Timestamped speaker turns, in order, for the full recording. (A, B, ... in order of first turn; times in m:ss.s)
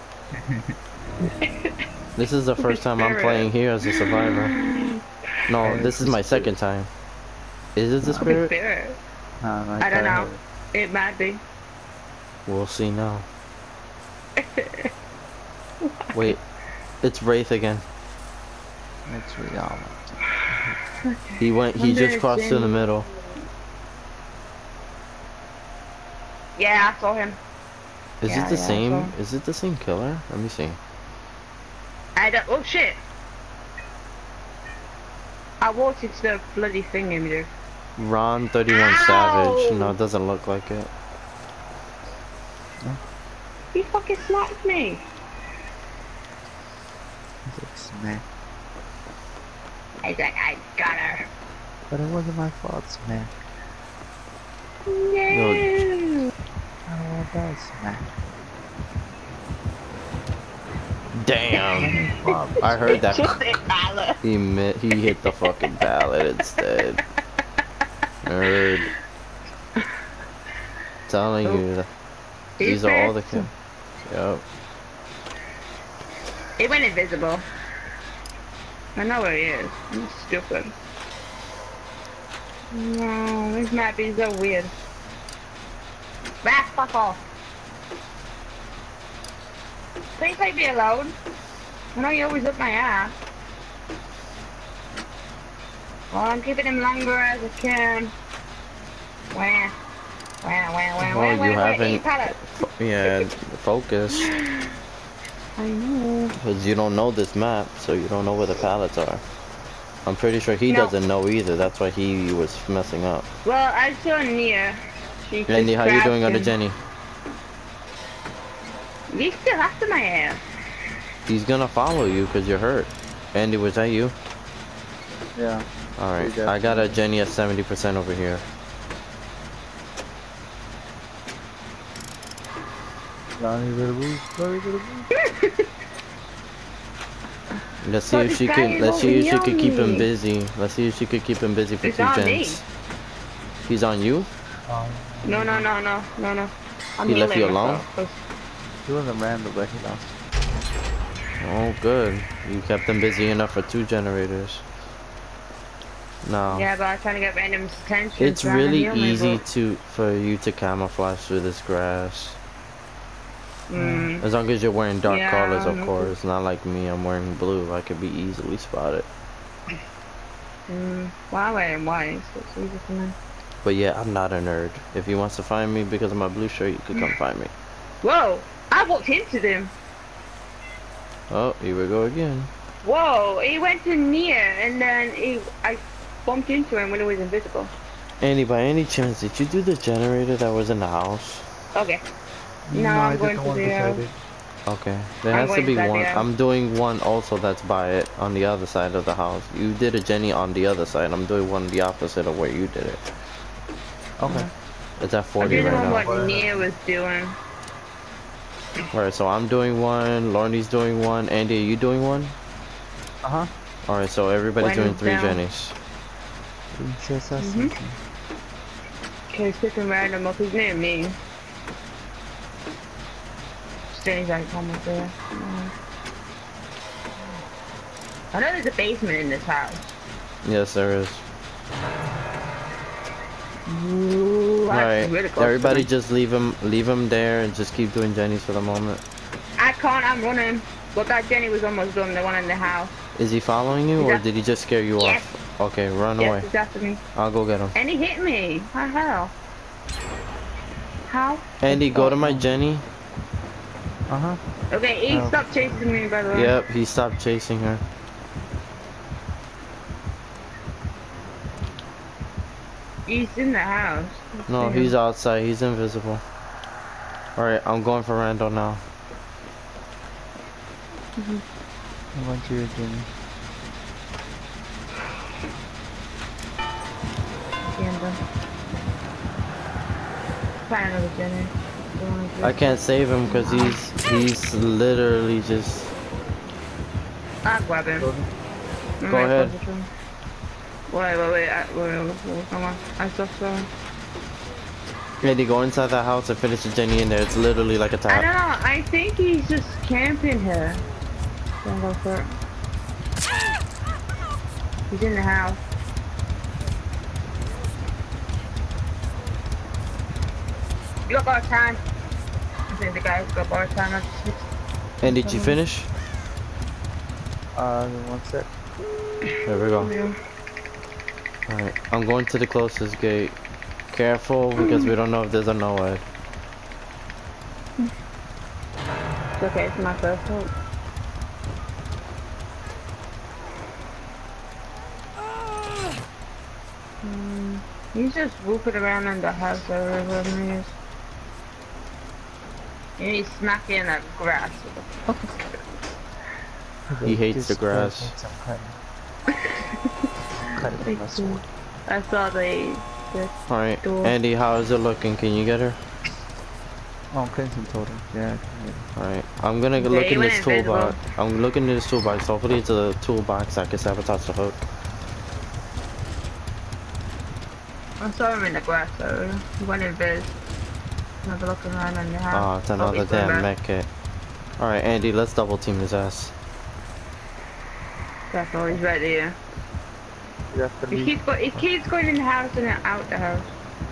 0:01.4-0:01.7 A
0:02.2-0:04.5 B
0:02.6-0:05.0 A
0:05.5-0:06.9 B
0:05.6-0:06.5 C
0:07.8-0:08.5 B
0:08.0-0:08.4 C
0:08.2-0:09.0 A
0:09.4-0:10.4 C
0:09.8-0:11.4 A
0:12.4-0:13.3 B
0:14.4-0:14.9 A
0:16.1-0:16.4 B
0:17.0-0:17.8 B
0:19.1-0:20.8 C
0:21.1-0:23.1 A
0:21.4-0:23.1 B
0:26.6-0:27.4 A
0:28.2-0:30.8 B
0:28.2-0:29.1 A
0:32.2-0:33.0 A
0:35.6-0:37.5 A
0:38.0-0:40.9 B
0:38.7-0:40.0 A
0:43.7-0:45.0 A
0:47.4-0:48.2 C
0:50.0-0:51.3 A
0:51.9-0:53.3 C
0:54.8-0:56.3 A
0:55.3-0:55.6 B
0:56.9-0:58.1 C
1:01.1-1:02.0 B
1:01.7-1:03.0 C
1:02.3-1:04.2 A
1:02.6-1:03.3 B
1:04.2-1:07.0 B
1:05.2-1:05.7 A
1:08.2-1:08.9 B
1:11.1-1:11.9 B
1:12.6-1:13.5 A
1:12.6-1:13.5 B
1:14.0-1:14.4 B
1:16.6-1:17.4 A
1:19.0-1:20.7 A
1:22.7-1:24.7 A
1:26.4-1:27.2 A
1:30.2-1:31.1 A
1:31.9-1:33.1 A
1:36.1-1:38.1 A
1:39.3-1:39.7 A
1:40.4-1:42.5 A
1:41.0-1:44.3 B
1:44.1-1:44.7 A
1:45.6-1:46.3 A
1:46.4-1:49.2 B
1:50.0-1:53.3 B
1:50.7-1:50.9 A
1:53.4-1:56.5 A
1:55.5-1:56.8 B
1:59.1-2:00.4 A
2:01.3-2:04.1 B
2:05.3-2:06.9 C
2:06.0-2:08.4 B
2:13.4-2:15.1 C
2:15.2-2:15.7 A
2:17.8-2:22.6 B
2:18.1-2:20.1 A
2:21.8-2:22.6 A
2:23.7-2:24.3 B
2:24.7-2:25.7 C
2:25.2-2:28.2 A
2:27.0-2:27.8 B
2:28.8-2:30.2 C
2:31.4-2:34.6 B
2:36.2-2:36.7 B
2:36.5-2:39.4 A
2:38.2-2:42.4 B
2:43.7-2:44.2 A
2:43.7-2:44.1 C
2:44.2-2:49.1 B
2:45.0-2:46.1 A
2:50.7-2:53.1 A
2:53.6-2:57.5 B
2:58.0-2:59.7 A
3:01.3-3:02.5 B
3:02.8-3:07.7 A
3:08.2-3:11.4 B
3:11.7-3:12.0 A
3:12.7-3:14.1 C
3:12.7-3:14.0 A
3:14.6-3:23.0 B
3:15.3-3:16.3 A
3:24.2-3:24.5 C
3:24.2-3:24.5 A
3:25.0-3:26.1 B
3:25.4-3:27.4 A
3:25.4-3:26.7 C
3:28.9-3:32.4 B
3:33.2-3:33.5 C
3:33.9-3:35.8 B
3:34.6-3:35.4 A
3:36.7-3:38.0 C
3:37.4-3:37.7 A
3:39.3-3:41.2 A
3:43.9-3:45.7 A
3:48.3-3:49.8 A
3:50.4-3:51.2 B
3:53.7-3:55.9 A
3:54.7-3:59.0 B
3:59.6-4:02.9 A
4:03.2-4:06.4 B
4:04.0-4:04.2 A
4:05.0-4:05.2 A
4:06.2-4:07.0 A
4:07.1-4:07.7 B
4:07.7-4:09.3 A
4:11.1-4:12.0 A
4:11.6-4:12.8 B
4:11.7-4:12.5 C
4:14.1-4:14.4 C
4:14.7-4:16.6 A
4:15.1-4:16.0 C
4:16.3-4:17.8 B
4:23.1-4:24.9 A
4:24.5-4:26.2 B
4:27.4-4:28.8 B
4:31.2-4:31.4 A
4:32.1-4:33.1 C
4:37.7-4:38.2 A
4:40.7-4:43.8 A
4:42.4-4:45.9 B
4:47.4-4:48.1 A
4:48.0-4:48.3 C
4:49.0-4:49.9 A
4:49.1-4:49.6 B
4:50.9-4:53.7 A
4:55.2-4:58.3 B
4:58.1-5:00.8 A
5:01.6-5:02.3 A
5:04.9-5:05.6 A
5:11.1-5:11.8 A
5:12.7-5:14.5 A
5:15.0-5:15.9 B
5:15.0-5:15.6 A
5:17.5-5:18.5 C
5:19.4-5:19.9 B
5:19.7-5:20.2 A
5:21.5-5:23.4 B
5:23.9-5:26.0 B
5:24.6-5:24.9 A
5:29.4-5:30.5 A
5:37.0-5:40.7 A
5:43.0-5:45.3 A
5:46.9-5:48.8 C
5:47.0-5:48.1 B
5:49.4-5:50.0 A
5:50.4-5:51.4 C
5:50.8-5:54.2 A
5:53.5-5:55.8 B
5:57.1-5:58.9 C
5:59.0-6:04.6 B
5:59.8-6:01.0 A
6:08.0-6:10.3 A
6:11.2-6:13.5 A
6:12.3-6:13.9 B
6:14.6-6:16.3 B
6:18.3-6:19.4 A
6:20.5-6:21.2 C
6:20.9-6:23.5 A